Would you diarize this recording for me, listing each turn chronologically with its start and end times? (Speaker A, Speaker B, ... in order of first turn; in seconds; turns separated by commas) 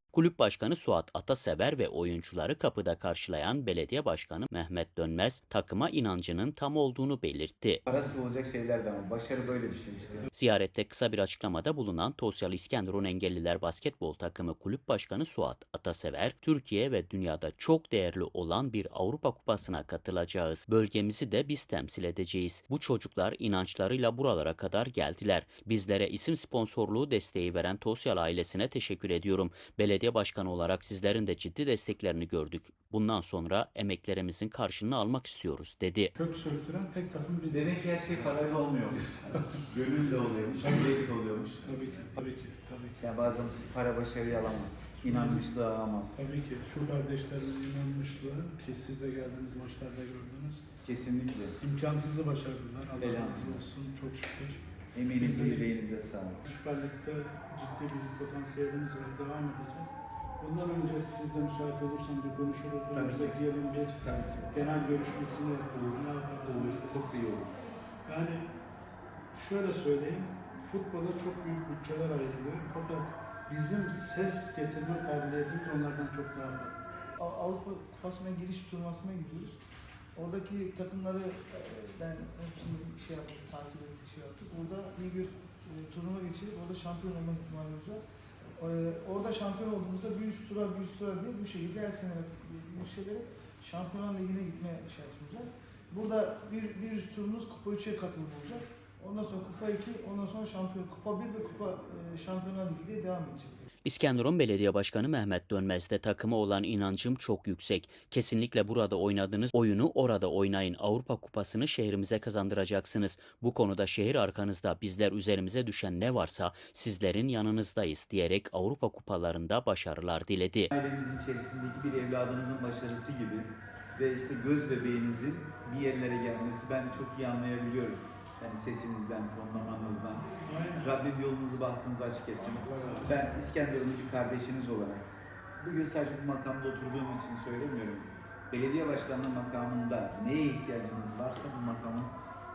Speaker A: 0.1-7.8, Speaker B: 7.8-10.3, Speaker A: 10.3-36.1, Speaker C: 36.2-37.8, Speaker B: 37.5-41.7, Speaker C: 41.6-43.2, Speaker B: 43.0-46.2, Speaker C: 45.0-45.5, Speaker C: 46.1-50.7, Speaker B: 50.8-51.6, Speaker C: 51.6-54.6, Speaker B: 53.0-53.6, Speaker B: 55.0-56.5, Speaker C: 55.2-55.8, Speaker C: 56.5-67.4, Speaker B: 62.9-63.4, Speaker B: 64.0-64.6, Speaker B: 66.4-67.5, Speaker C: 68.0-68.5, Speaker C: 69.3-76.8, Speaker D: 77.2-79.6, Speaker D: 80.2-88.0, Speaker D: 88.6-103.7, Speaker A: 103.8-120.7, Speaker B: 120.7-135.1, Speaker C: 130.5-130.9, Speaker C: 132.4-133.5, Speaker B: 135.6-142.1